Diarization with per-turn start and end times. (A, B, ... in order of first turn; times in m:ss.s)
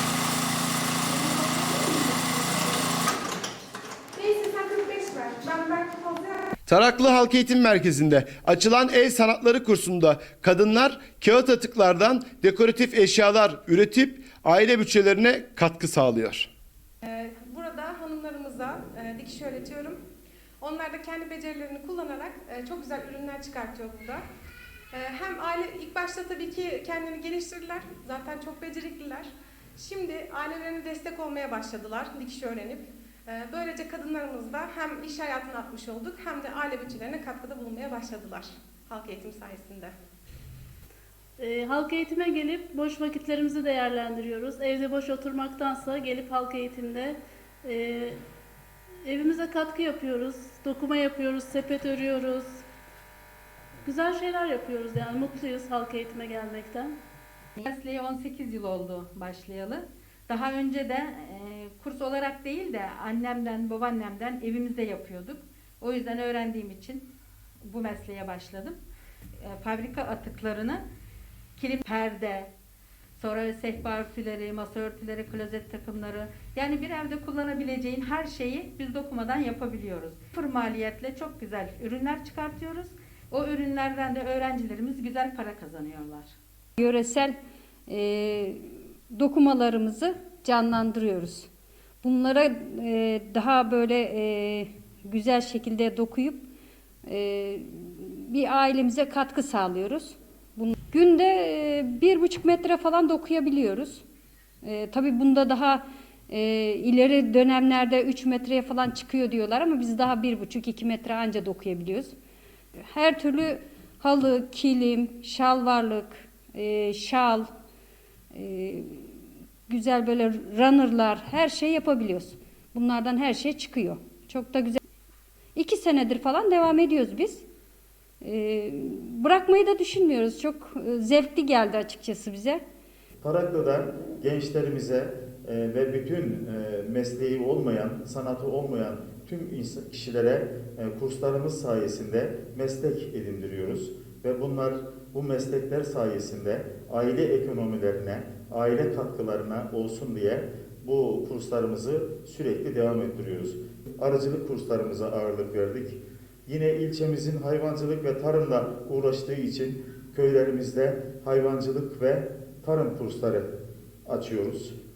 0:01.0-0:02.9 A
0:04.1-0:06.5 A
0:06.6-0:16.5 B
0:17.0-0:20.0 A
0:20.6-0:24.2 A
0:24.9-0:39.9 A
0:41.4-0:48.2 C
0:49.0-0:52.6 C
0:53.8-0:57.0 C
0:57.6-1:07.0 D
1:07.6-1:08.8 D
1:09.4-1:10.8 D
1:11.6-1:12.5 D
1:13.2-1:26.3 D
1:26.8-1:31.5 E
1:32.0-1:36.4 E
1:37.0-1:44.0 E
1:44.6-1:52.1 E
1:52.9-1:57.5 E
1:58.3-1:59.1 E
1:59.7-2:04.8 E
2:05.5-2:07.4 E
2:08.2-2:12.6 E
2:13.2-2:43.5 F
2:44.0-2:44.8 F